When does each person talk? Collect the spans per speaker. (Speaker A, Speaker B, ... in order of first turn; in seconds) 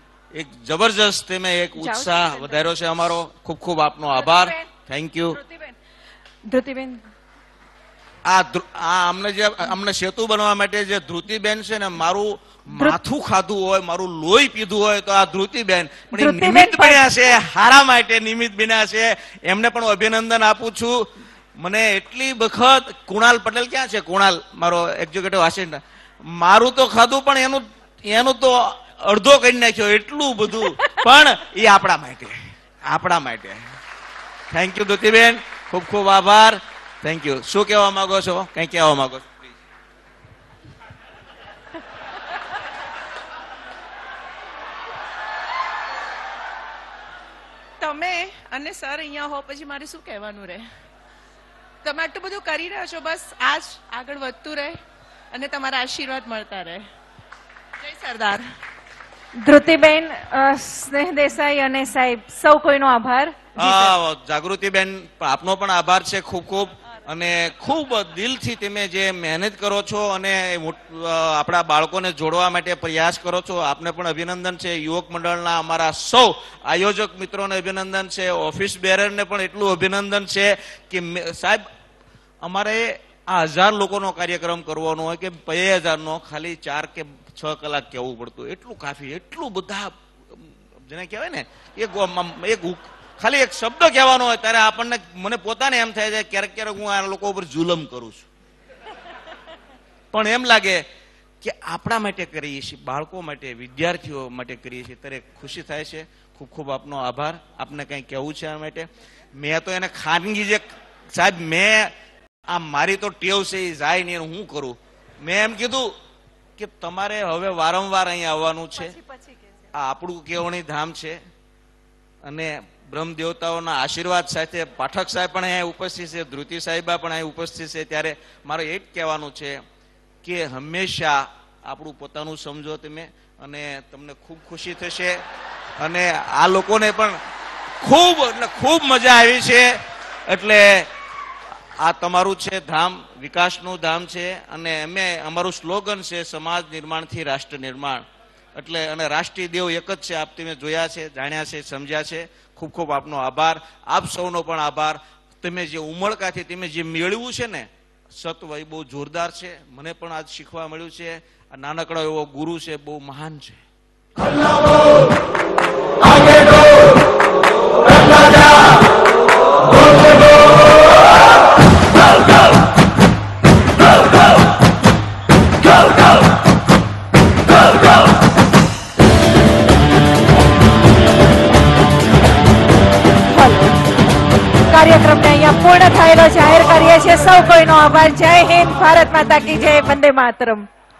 Speaker A: 0.3-5.4, 8.2-33.6, 34.5-39.5, 63.5-81.7, 82.4-98.3, 100.1-100.8, 101.4-111.9, 112.5-115.9, 116.6-119.0, 119.7-121.2, 122.2-129.6, 130.2-135.2, 135.8-137.2, 137.8-140.9, 141.8-163.6
Speaker B: 1.8-2.4, 4.2-4.6, 6.5-7.0, 16.1-17.1, 59.4-63.8, 183.3-183.8, 184.7-190.7
Speaker C: 47.8-50.6, 51.8-54.7, 55.3-56.8, 57.9-58.4